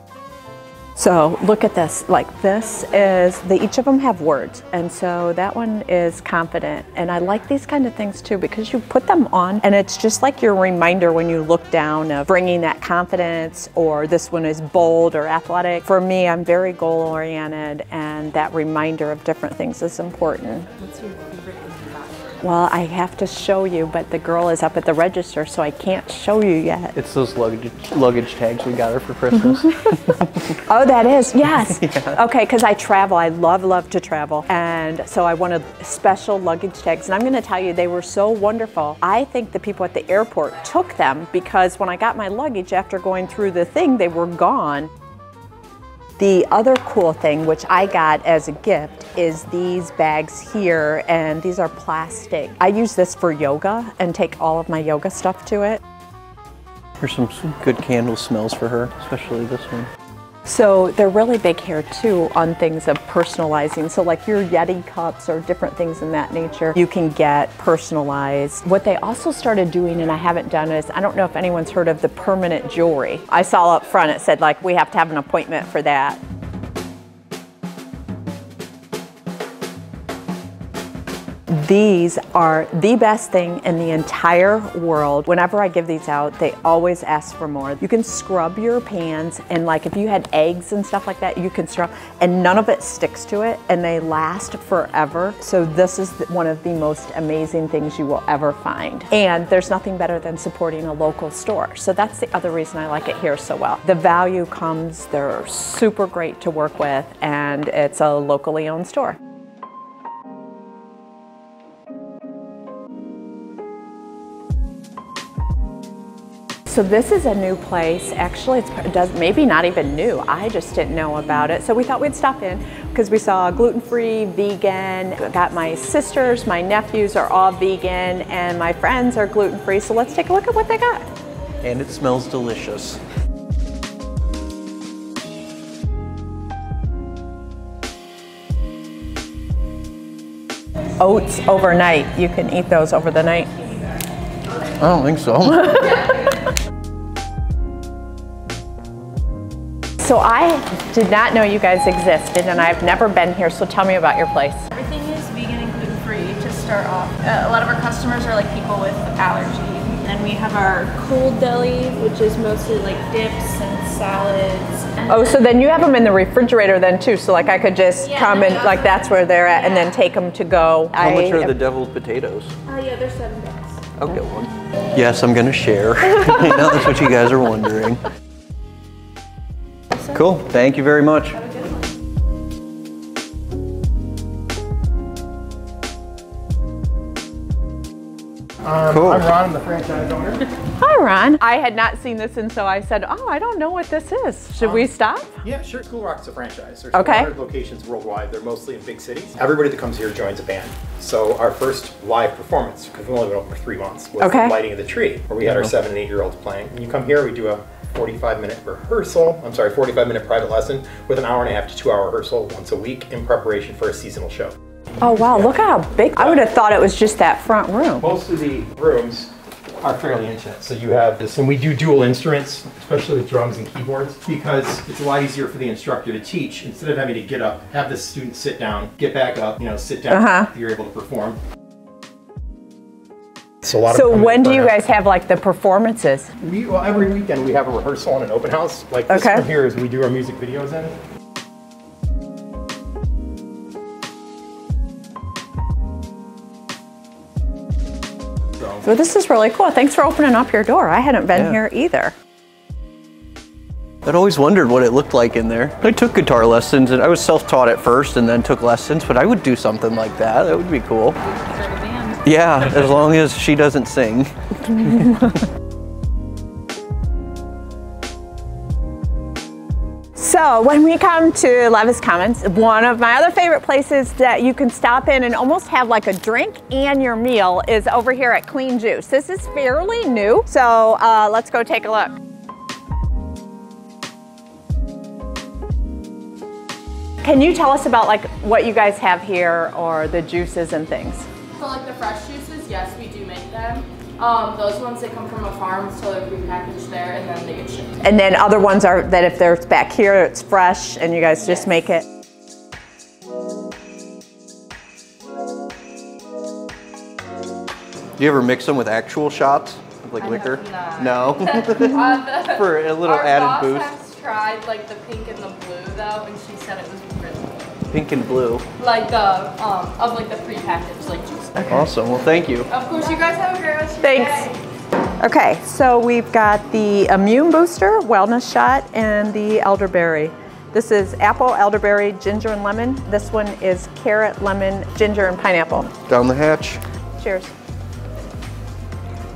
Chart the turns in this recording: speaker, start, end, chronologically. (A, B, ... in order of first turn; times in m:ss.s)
0:01.0-0:20.7 A
0:20.8-0:22.3 B
0:22.4-0:27.0 A
0:27.0-0:30.5 C
0:30.7-0:44.9 A
0:31.5-0:32.2 C
0:46.2-0:55.8 A
0:57.0-0:59.9 C
1:00.5-1:16.2 A
1:21.5-1:49.2 A
1:56.7-2:11.1 A
2:11.6-2:13.0 C
2:21.0-2:23.7 A
2:24.7-2:25.9 C
2:30.0-2:34.7 A
2:34.7-2:45.0 B
2:45.1-2:51.6 A
2:48.1-2:49.1 B
2:51.0-2:52.5 C
2:52.7-2:53.8 B
2:54.0-2:58.0 C
3:00.1-3:01.4 C
3:01.5-3:01.8 B
3:08.6-3:10.5 D
3:08.9-3:09.3 C
3:10.8-3:15.4 A
3:14.6-3:14.9 D
3:15.4-3:35.6 D
3:16.9-3:17.3 A
3:24.2-3:24.6 A
3:35.0-3:38.1 A
3:36.1-3:36.4 D
3:38.0-3:51.4 D
3:50.1-3:50.5 A
3:53.6-3:54.8 D
3:53.9-3:56.3 A
3:56.4-4:01.0 D
3:59.1-3:59.5 A
4:08.8-4:12.1 A
4:11.3-4:11.6 C
4:14.0-4:21.2 C
4:21.2-4:22.2 B
4:22.2-4:25.2 C
4:30.2-4:42.1 A
4:47.2-4:51.2 A
4:51.5-4:57.9 B
4:58.0-5:02.0 A
5:08.2-5:14.0 C
5:10.2-5:17.8 B
5:17.9-5:18.6 C
5:18.8-5:21.9 B
5:21.7-5:22.7 C
5:22.7-5:24.6 B
5:24.0-5:24.5 A
5:25.2-5:35.9 A
5:36.0-5:36.8 C
5:37.2-5:37.5 A